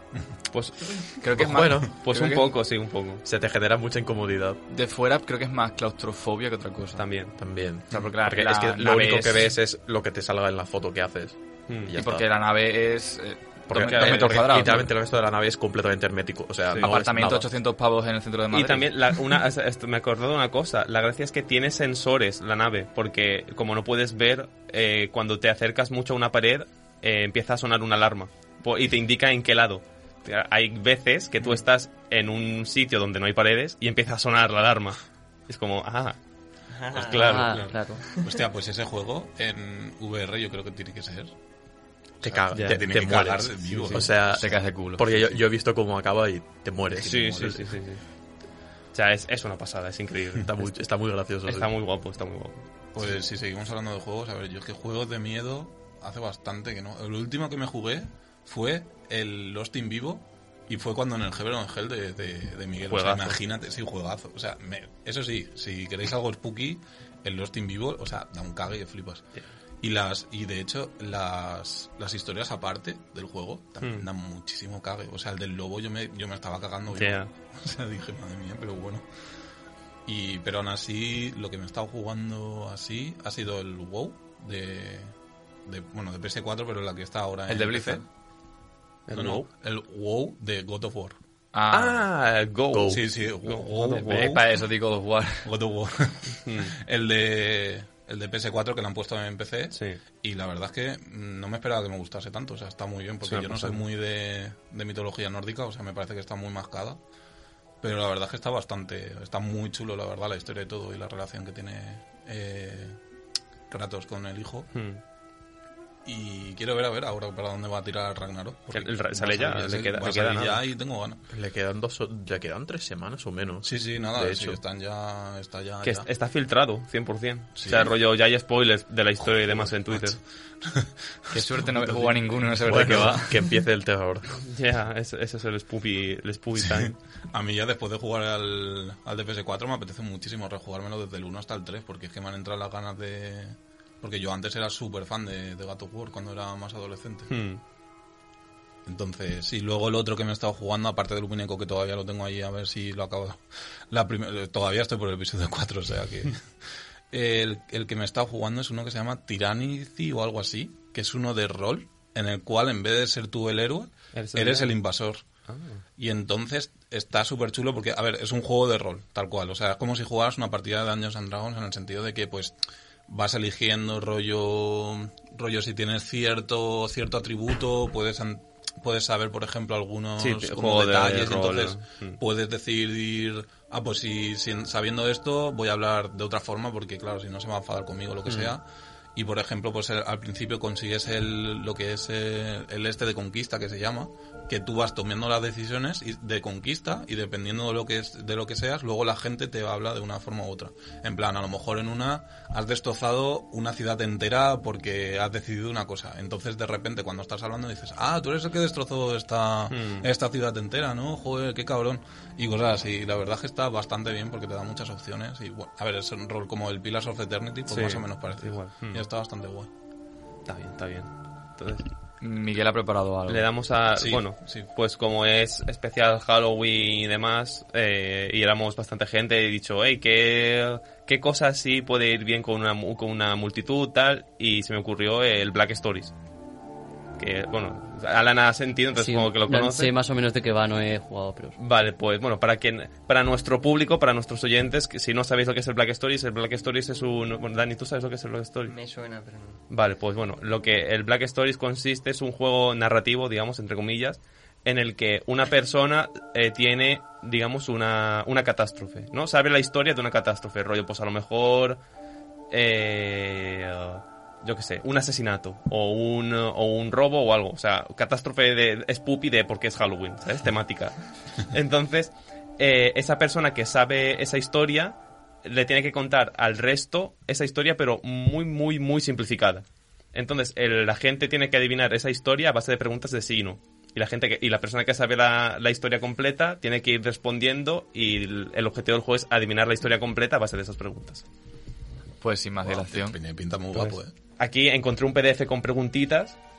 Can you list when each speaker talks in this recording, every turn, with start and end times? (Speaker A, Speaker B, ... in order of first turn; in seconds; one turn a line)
Speaker A: 0.5-1.2
Speaker B: 1.2-2.5
Speaker C: 1.4-1.9
Speaker A: 2.0-3.2
Speaker C: 3.2-4.6
Speaker B: 4.7-7.0
Speaker A: 7.0-7.3
Speaker C: 7.4-12.3
Speaker B: 7.9-9.6
Speaker B: 12.0-14.9
Speaker C: 13.7-17.5
Speaker A: 13.8-14.7
Speaker B: 16.8-18.9
Speaker A: 18.5-36.2
Speaker D: 36.7-38.3
Speaker A: 36.9-37.7
Speaker E: 37.1-38.0
Speaker F: 37.5-41.4
Speaker F: 42.2-44.5
Speaker C: 42.2-47.7
Speaker A: 42.5-42.8
Speaker B: 44.3-45.1
Speaker F: 47.0-47.6
Speaker A: 47.0-48.0
Speaker A: 48.9-50.5
Speaker C: 50.5-51.7
Speaker A: 51.5-52.6
Speaker F: 53.0-69.2
Speaker A: 62.9-63.4
Speaker F: 69.8-79.0
Speaker A: 77.0-77.3
Speaker F: 80.1-85.1
Speaker F: 85.7-88.0
Speaker B: 87.5-88.0
Speaker A: 89.1-89.5
Speaker F: 89.1-91.2
Speaker B: 91.5-92.0
Speaker A: 91.7-94.3
Speaker C: 92.7-93.0
Speaker F: 92.9-94.5
Speaker B: 93.9-95.5
Speaker F: 95.4-107.0
Speaker A: 96.5-96.7
Speaker A: 99.7-100.0
Speaker A: 103.2-103.8
Speaker F: 107.8-113.0
Speaker F: 113.7-114.7
Speaker A: 114.7-115.0
Speaker F: 116.0-121.2
Speaker A: 118.7-120.6
Speaker C: 121.3-124.6
Speaker F: 123.6-126.1
Speaker A: 125.8-130.2
Speaker F: 127.6-127.9
Speaker F: 129.3-132.5
Speaker B: 131.3-133.3
Speaker C: 132.6-134.4
Speaker A: 134.5-137.0
Speaker F: 136.6-147.3
Speaker A: 147.3-147.6
Speaker F: 148.8-156.4
Speaker F: 157.1-165.2
Speaker A: 164.1-164.7
Speaker A: 165.5-165.8
Speaker F: 166.0-172.6
Speaker F: 173.1-188.6
Speaker A: 180.2-182.2
Speaker F: 189.2-219.7
Speaker A: 209.7-210.1
Speaker A: 217.7-219.0
Speaker A: 220.5-221.9
Speaker B: 222.2-223.4
Speaker A: 223.3-236.1
Speaker F: 224.0-224.7
Speaker A: 237.2-239.9
Speaker E: 239.0-241.6
Speaker A: 241.6-248.8
Speaker D: 248.7-249.6
Speaker A: 249.7-261.8
Speaker A: 262.5-291.2
Speaker B: 292.2-293.2
Speaker F: 292.6-294.1
Speaker A: 293.7-296.4